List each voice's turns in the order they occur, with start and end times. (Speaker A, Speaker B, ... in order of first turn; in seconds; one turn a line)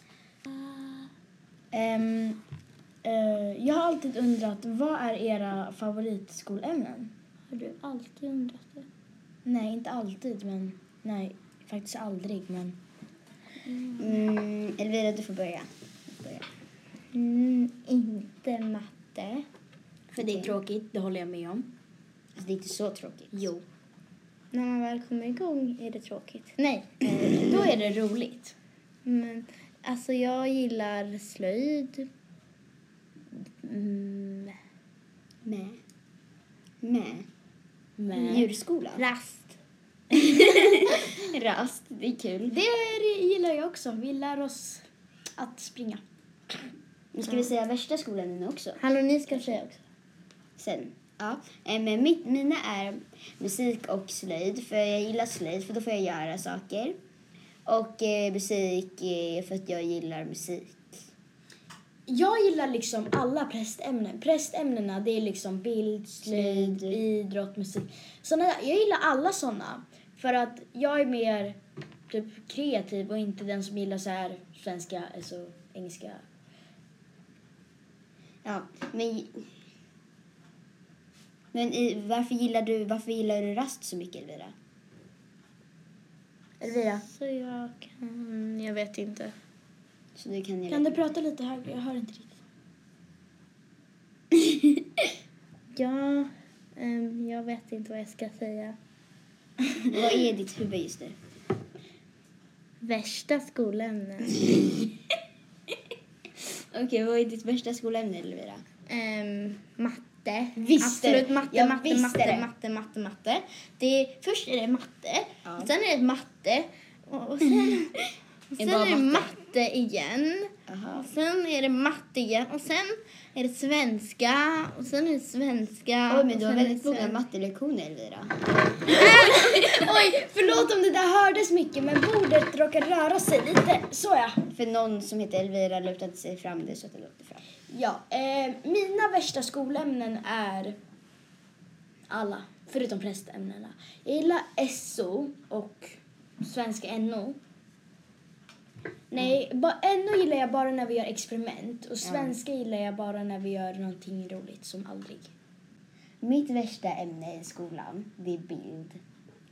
Speaker A: 0.7-1.1
Speaker A: 1.7-2.4
Speaker A: 3.0-7.1
Speaker B: 7.5-8.8
Speaker A: 9.4-12.8
Speaker B: 13.6-14.3
Speaker C: 14.0-16.5
Speaker B: 17.1-19.4
Speaker A: 20.1-21.7
Speaker C: 20.2-20.5
Speaker C: 22.4-23.5
Speaker A: 23.3-23.6
Speaker B: 24.5-27.7
Speaker A: 27.4-28.5
Speaker B: 29.1-32.1
Speaker B: 33.6-34.5
Speaker C: 35.4-35.8
Speaker C: 36.8-37.3
Speaker A: 38.0-38.5
Speaker C: 38.1-39.0
Speaker B: 39.0-39.6
Speaker C: 40.1-42.5
Speaker A: 42.5-44.9
Speaker A: 45.4-46.0
Speaker C: 47.1-49.6
Speaker B: 48.8-49.8
Speaker C: 50.6-57.0
Speaker C: 57.7-61.0
Speaker A: 62.1-71.6
Speaker C: 66.2-67.0
Speaker A: 72.1-76.2
Speaker C: 78.4-79.5
Speaker C: 81.5-84.5
Speaker A: 86.6-87.0
Speaker B: 87.0-89.3
Speaker C: 90.2-91.0
Speaker A: 90.7-92.4
Speaker C: 94.3-95.0
Speaker B: 95.7-98.8
Speaker C: 99.9-101.2
Speaker B: 102.8-104.8
Speaker C: 106.4-108.6
Speaker B: 108.9-127.2
Speaker A: 110.6-111.3
Speaker C: 110.9-112.5
Speaker C: 115.4-115.7
Speaker C: 118.6-119.3
Speaker C: 120.7-121.1
Speaker C: 126.1-129.6
Speaker A: 128.9-134.4
Speaker C: 134.5-137.4
Speaker A: 137.7-140.8
Speaker A: 142.1-147.4
Speaker A: 149.1-155.3
Speaker C: 152.0-152.4
Speaker C: 156.2-159.0